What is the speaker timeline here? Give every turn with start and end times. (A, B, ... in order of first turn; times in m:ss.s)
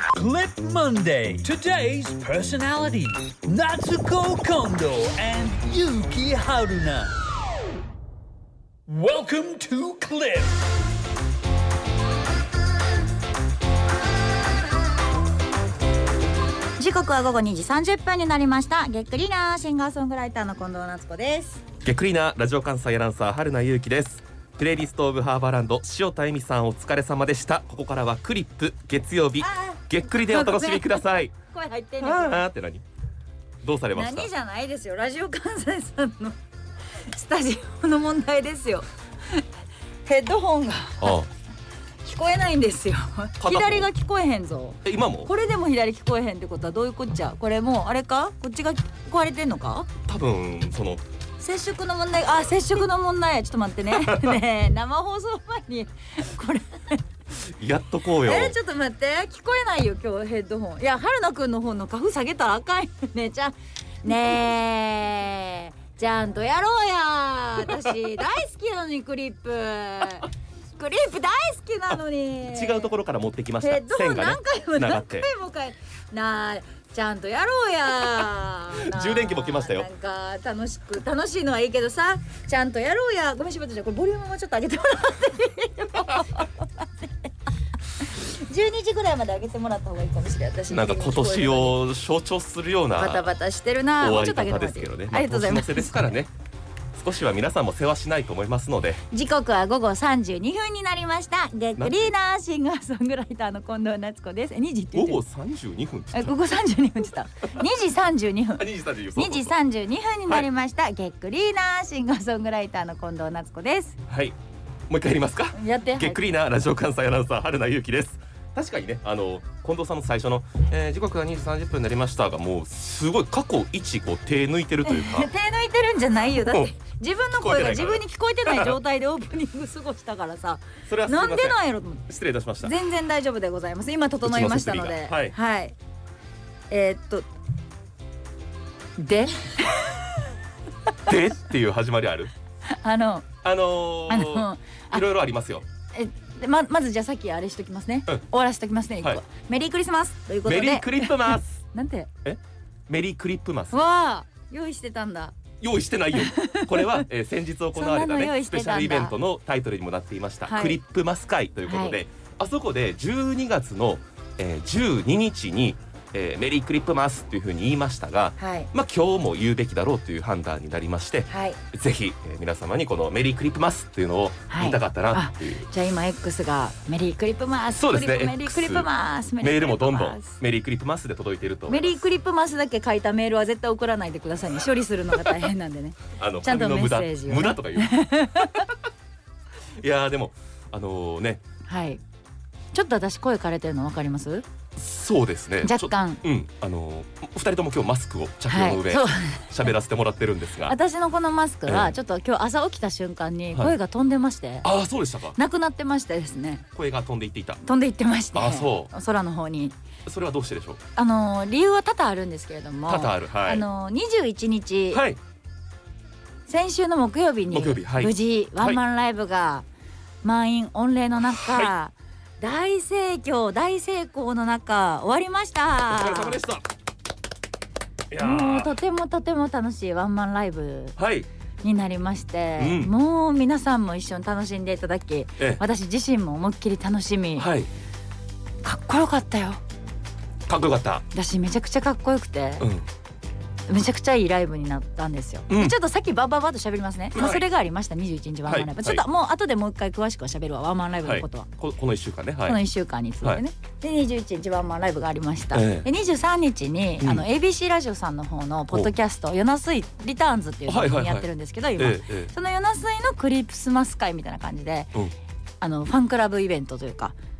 0:00.1-0:07.1 A
0:08.9-0:10.6 A
0:16.8-0:21.6 B
0:21.8-0:31.3 C
0:29.4-0:32.4 B
0:32.0-0:32.8 C
0:33.6-0:34.3 C
0:33.9-0:36.3 B
0:37.0-0:39.4 B
0:40.0-0:41.2 B
0:41.0-0:41.3 C
0:42.0-0:49.9 B
0:43.4-0:43.9 C
0:44.8-0:45.3 C
0:50.0-0:51.0 C
0:51.4-0:57.0 B
0:53.9-0:54.4 C
0:57.4-0:58.6 C
0:58.2-1:12.9 B
1:12.5-1:15.3 C
1:13.6-1:27.3 B
1:18.7-1:19.9 C
1:26.0-1:26.4 C
1:28.0-1:31.8 B
1:30.7-1:33.3 C
1:33.0-1:36.0 B
1:34.0-1:36.3 C
1:36.9-1:39.0 C
1:39.1-1:45.2 B
1:41.8-1:42.1 C
1:44.9-1:46.4 C
1:46.1-1:54.0 B
1:48.6-1:49.5 C
1:54.1-1:54.4 C
1:54.9-2:05.3 C
1:55.5-1:56.2 B
2:04.8-2:12.0 B
2:06.4-2:06.7 C
2:07.4-2:08.8 C
2:10.9-2:12.8 C
2:12.6-2:15.7 B
2:14.2-2:15.3 C
2:16.7-2:17.3 B
2:19.0-2:20.0 B
2:21.0-2:22.3 C
2:22.7-2:23.3 B
2:23.4-2:25.6 C
2:24.1-2:25.0 B
2:25.9-2:32.1 B
2:30.4-2:31.6 C
2:32.2-2:33.8 C
2:33.7-2:35.3 B
2:35.6-2:55.7 C
2:36.1-2:37.0 B
2:37.7-2:39.2 B
2:40.4-2:40.8 B
2:41.7-2:42.0 B
2:48.4-2:48.7 B
2:51.3-2:51.6 B
2:54.5-3:00.4 B
2:57.7-2:58.9 C
2:59.4-3:02.0 C
3:01.7-3:08.7 B
3:05.1-3:05.4 C
3:06.1-3:08.7 C
3:09.8-3:11.4 C
3:11.6-3:12.0 B
3:12.7-3:14.4 B
3:14.8-3:20.8 C
3:15.6-3:16.2 B
3:18.5-3:19.7 B
3:20.6-3:24.7 B
3:21.6-3:21.9 C
3:24.6-3:25.4 C
3:25.4-3:26.6 B
3:26.7-3:27.6 C
3:27.6-3:29.8 B
3:28.3-3:28.9 C
3:30.0-3:30.8 C
3:31.0-3:35.0 B
3:32.9-3:33.6 C
3:34.9-3:35.2 C
3:36.5-3:39.6 B
3:37.5-3:38.8 C
3:40.2-3:46.4 B
3:41.3-3:41.7 C
3:45.9-3:46.6 C
3:48.1-3:48.7 C
3:48.2-3:51.0 B
3:51.0-3:51.3 C
3:51.6-3:57.5 B
3:52.6-3:52.9 C
3:57.4-3:57.7 C
3:58.6-3:59.6 B
4:00.5-4:01.0 C
4:01.1-4:02.7 B
4:02.6-4:02.8 C
4:03.7-4:11.5 B
4:05.5-4:05.7 C
4:07.1-4:07.4 C
4:08.4-4:09.0 C
4:11.0-4:12.6 C
4:12.4-4:24.9 B
4:15.5-4:15.9 C
4:17.0-4:17.2 C
4:20.7-4:22.3 C
4:25.6-4:27.1 B